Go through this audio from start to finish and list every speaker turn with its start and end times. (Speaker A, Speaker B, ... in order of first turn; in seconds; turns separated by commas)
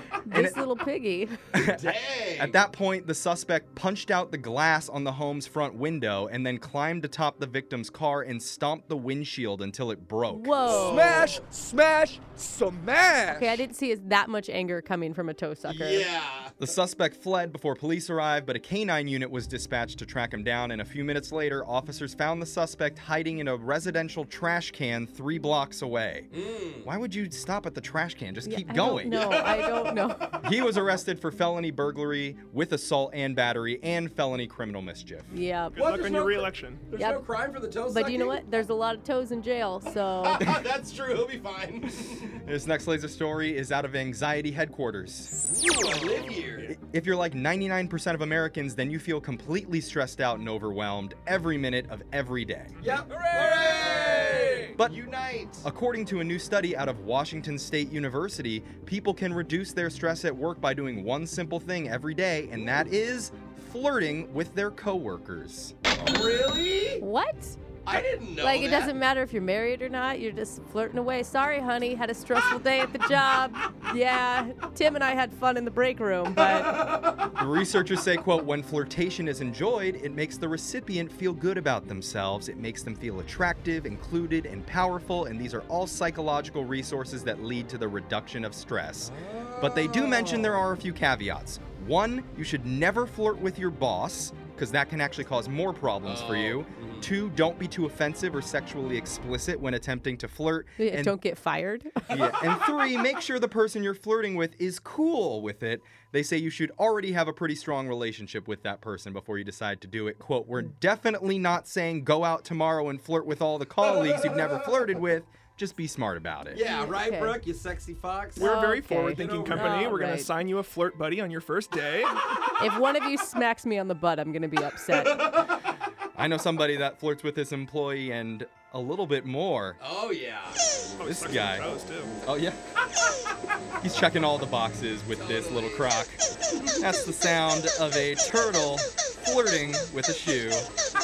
Speaker A: 0.3-1.4, Speaker B: 0.3-0.6, Speaker B: 1.5-11.0, Speaker C: 1.5-2.6, Speaker A: 10.3-11.3, Speaker C: 10.6-11.5, Speaker D: 10.9-13.6, Speaker A: 13.3-16.1, Speaker C: 15.7-16.6, Speaker B: 16.6-26.3, Speaker C: 26.3-26.9, Speaker B: 26.8-29.2, Speaker A: 28.4-30.4, Speaker C: 29.1-30.3, Speaker B: 30.4-35.3, Speaker A: 35.3-35.8, Speaker E: 35.7-36.8, Speaker C: 35.7-38.4, Speaker A: 36.9-37.2, Speaker A: 37.8-40.4, Speaker C: 40.2-42.4, Speaker B: 42.4-45.3, Speaker C: 45.4-46.7, Speaker B: 46.7-52.8, Speaker C: 52.8-55.7, Speaker E: 54.1-54.6, Speaker B: 55.6-65.7, Speaker C: 66.0-67.0, Speaker A: 67.0-67.6, Speaker C: 67.8-68.9, Speaker A: 68.4-76.7, Speaker C: 76.3-77.3, Speaker B: 77.3-101.2, Speaker C: 89.0-90.7, Speaker C: 96.0-97.1, Speaker A: 100.8-102.1, Speaker C: 102.1-102.7, Speaker B: 102.1-116.6, Speaker C: 113.9-114.7, Speaker C: 116.5-118.5, Speaker A: 116.5-117.4, Speaker E: 118.4-122.2, Speaker A: 118.4-120.3, Speaker C: 119.1-120.0, Speaker A: 122.6-125.5, Speaker C: 124.9-125.6, Speaker B: 126.2-129.8, Speaker C: 129.8-130.7, Speaker E: 131.0-132.2, Speaker B: 131.0-131.7, Speaker B: 132.2-132.6, Speaker B: 133.8-136.2, Speaker C: 135.1-135.9, Speaker B: 136.8-140.7